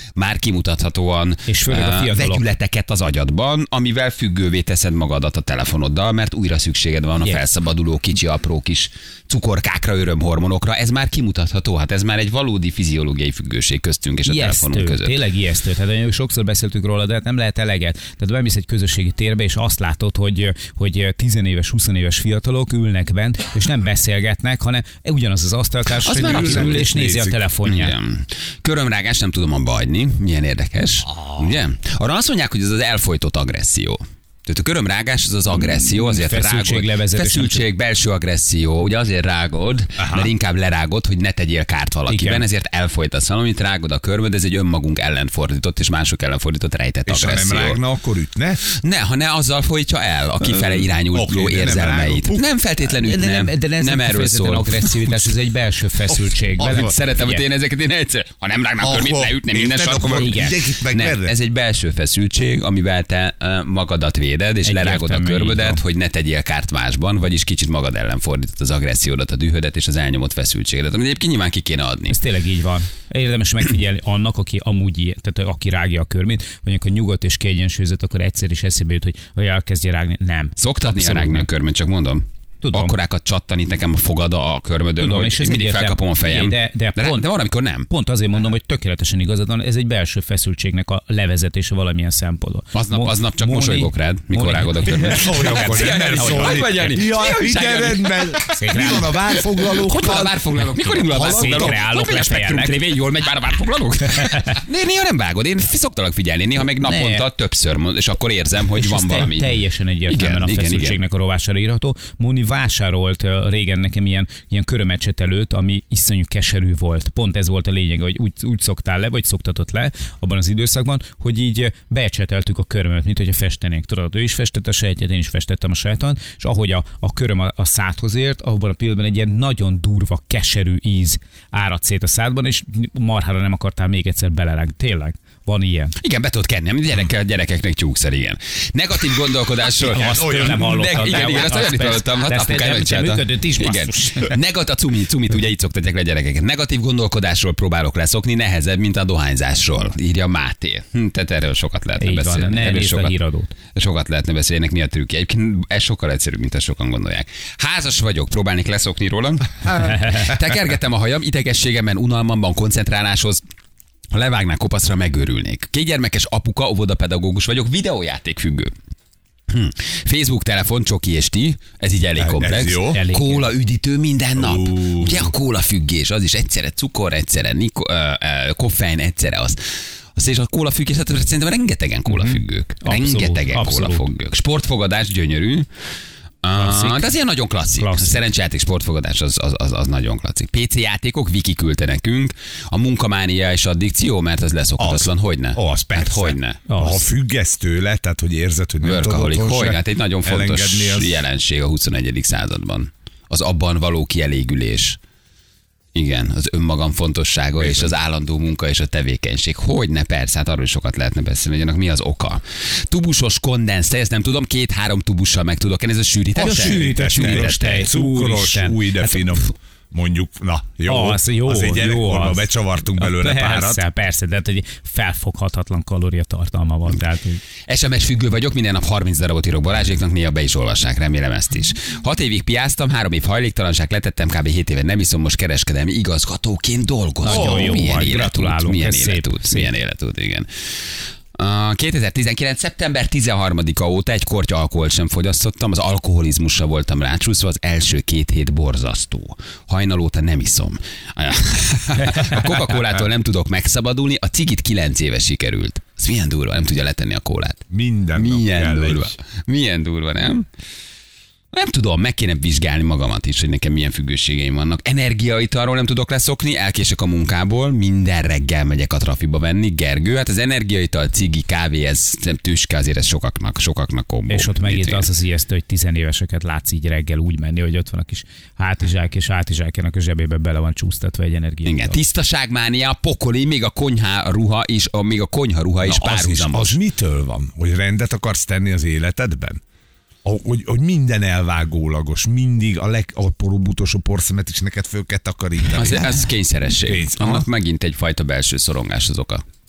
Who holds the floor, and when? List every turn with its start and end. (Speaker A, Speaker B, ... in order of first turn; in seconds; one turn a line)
Speaker A: 0.1-15.2
Speaker B: 1.5-2.4
Speaker B: 14.2-27.9
Speaker A: 26.0-26.9
Speaker C: 26.1-27.4
Speaker A: 27.6-47.8
Speaker C: 31.0-31.6
Speaker B: 35.5-37.6
Speaker C: 40.0-40.3
Speaker B: 42.1-42.4
Speaker C: 47.0-48.6
Speaker A: 48.7-54.9
Speaker C: 50.5-52.5
Speaker B: 53.0-57.4
Speaker C: 56.1-56.9
Speaker A: 56.6-72.2
Speaker C: 58.8-61.3
Speaker B: 60.0-60.5
Speaker B: 64.6-65.8
Speaker B: 72.1-81.5
Speaker A: 80.6-87.9
Speaker B: 82.6-82.9
Speaker B: 85.0-87.2
Speaker B: 87.9-97.0
Speaker A: 92.7-111.0
Speaker C: 95.0-101.8
Speaker B: 98.5-99.2
Speaker B: 101.1-102.8
Speaker B: 104.1-104.6
Speaker B: 106.8-107.2
Speaker B: 108.8-135.9
Speaker A: 136.0-153.1
Speaker C: 139.8-141.4
Speaker B: 139.9-144.4
Speaker B: 152.0-153.5
Speaker A: 153.7-163.4
Speaker B: 159.8-160.3
Speaker A: 164.1-168.7
Speaker A: 169.5-179.6
Speaker C: 172.2-173.0
Speaker B: 172.8-173.5
Speaker C: 174.4-175.3
Speaker A: 180.2-185.7
Speaker B: 182.1-184.0
Speaker A: 186.4-196.6
Speaker B: 186.6-187.1
Speaker B: 187.8-188.2
Speaker C: 194.8-201.2
Speaker B: 196.7-197.0
Speaker A: 198.8-205.0
Speaker A: 205.9-217.9
Speaker C: 207.6-207.9
Speaker C: 216.3-223.8
Speaker B: 216.3-219.2
Speaker B: 220.9-227.4
Speaker A: 227.7-257.6
Speaker B: 237.2-239.7
Speaker C: 237.3-238.0
Speaker C: 257.7-259.1
Speaker A: 258.1-260.5
Speaker A: 261.5-275.0
Speaker B: 274.3-282.0
Speaker A: 281.6-286.8
Speaker C: 285.8-289.6
Speaker C: 290.2-296.1
Speaker A: 295.7-299.4
Speaker C: 296.8-297.4